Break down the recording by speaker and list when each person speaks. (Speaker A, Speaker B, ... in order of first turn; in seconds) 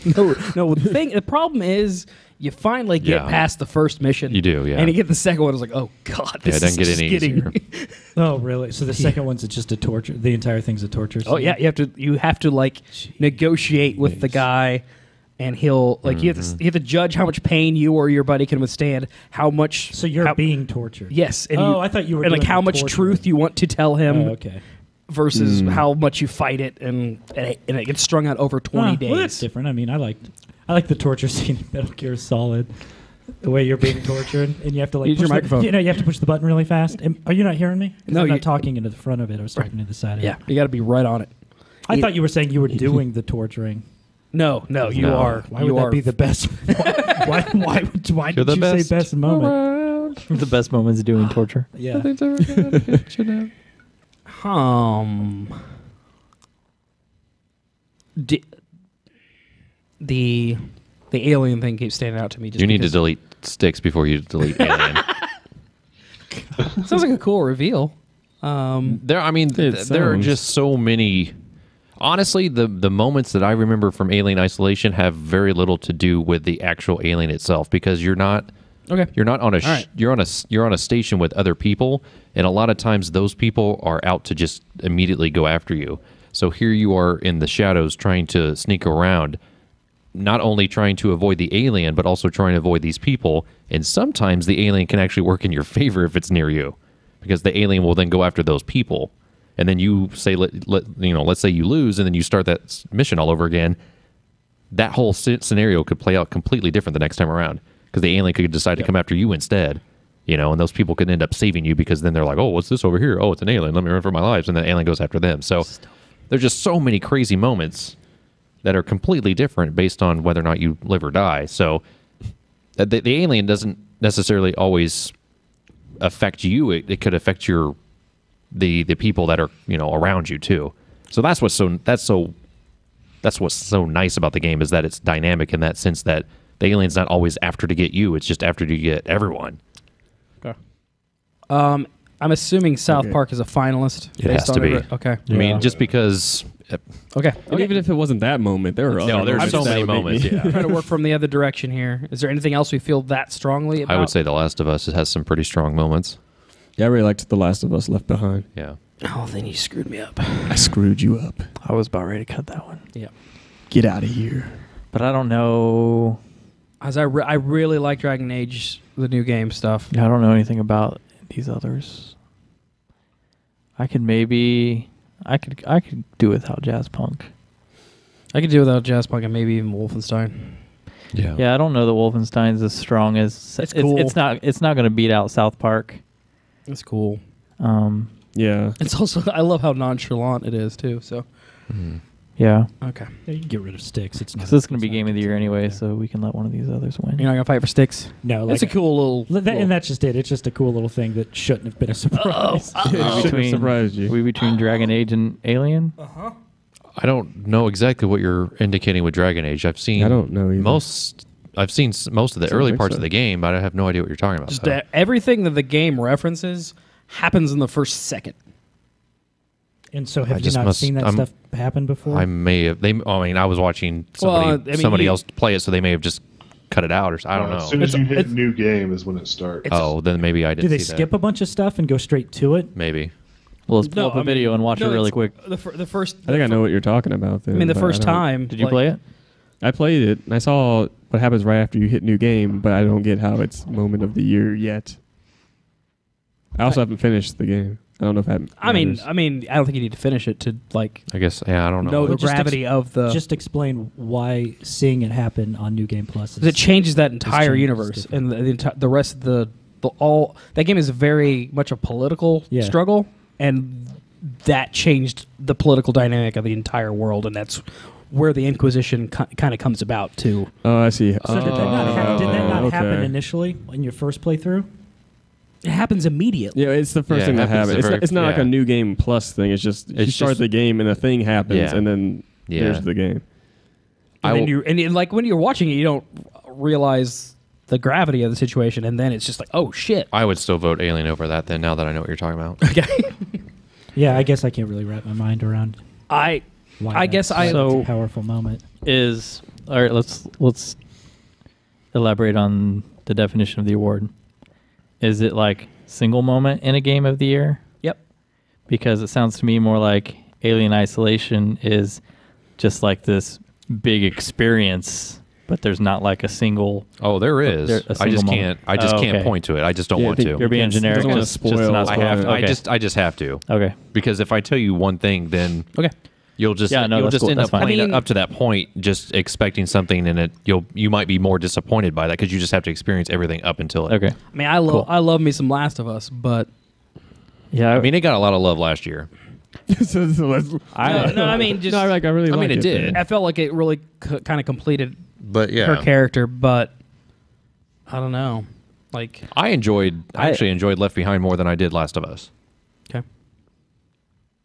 Speaker A: 0.1-8.1, 11.2-20.5, 21.1-29.4, 35.0-35.9, 38.1-38.5, 39.5-43.0, 44.3-47.2, 51.9-53.5, 54.2-55.5, 58.1-58.4, 60.0-63.0, 66.7-69.0, 78.9-79.8, 141.5-145.8, 147.1-147.8, 149.3-154.1, 159.0-160.8, 166.8-169.9, 178.3-180.6, 183.6-184.2, 186.7-187.2, 188.8-191.4, 192.8-193.1, 197.2-199.7, 202.1-203.4, 206.0-206.3, 214.5-218.4, 224.2-225.2, 227.8-228.4, 229.6-229.9, 233.8-238.9, 248.6-251.2, 251.8-253.2, 256.4-270.6, 275.6-276.6, 284.2-290.1, 292.7-293.4, 296.1-297.9, 327.5-328.0, 334.3-336.5, 340.8-342.1, 342.9-346.7, 347.9-349.3
Speaker B: 3.0-4.9, 6.4-7.5, 16.0-16.6, 44.9-45.5, 48.3-49.1, 62.6-65.2, 68.8-71.3, 72.0-89.4, 90.1-103.8, 104.7-118.0, 118.6-121.8, 122.8-125.2, 126.0-127.8, 128.5-132.3, 133.2-139.6, 144.2-147.1, 149.0-150.6, 153.8-156.2, 181.1-181.4, 191.7-192.0, 206.9-214.8, 220.3-221.4, 222.1-227.8, 229.7-231.1, 232.7-233.1, 251.1-252.2, 271.2-272.7, 277.1-278.5, 279.9-280.5, 281.5-282.9, 284.2-284.5, 290.1-292.6, 317.0-321.3, 321.8-334.0, 337.7-339.1, 342.2-343.0, 345.2-345.9, 349.3-352.3
Speaker C: 8.1-11.6, 19.9-23.3, 24.0-24.6, 28.7-40.4, 41.9-44.3, 44.9-49.7, 51.7-52.1, 193.2-195.8, 198.2-203.2, 219.9-222.3, 230.6-232.7, 252.0-258.2, 262.5-262.8, 271.2-274.7, 293.9-296.1, 296.8-298.6
Speaker D: 25.3-25.9, 52.5-53.0, 69.5-70.3, 142.9-143.2, 145.3-145.6, 147.4-150.9, 156.8-158.5, 160.5-161.5, 163.7-164.6, 188.3-188.8, 202.8-204.2, 209.9-210.8, 212.4-213.1, 236.2-238.4, 239.6-245.0, 246.5-249.1, 270.6-273.1, 276.5-283.3, 284.2-284.5, 319.9-322.6, 339.7-343.0
Speaker E: 49.2-51.7, 145.3-145.6, 161.6-162.8, 164.9-166.2, 169.9-172.2, 173.8-177.3, 181.3-186.0, 187.6-188.1, 192.4-192.7, 194.4-197.3, 203.0-206.0, 233.7-235.3, 238.5-239.0, 297.4-297.9, 298.8-300.8, 301.9-304.1, 305.0-307.8, 308.7-312.0, 312.5-319.3, 320.4-322.8, 323.5-323.7, 326.7-327.7, 333.9-334.9, 337.5-337.9, 340.7-341.5, 350.1-350.4
Speaker F: 227.3-229.7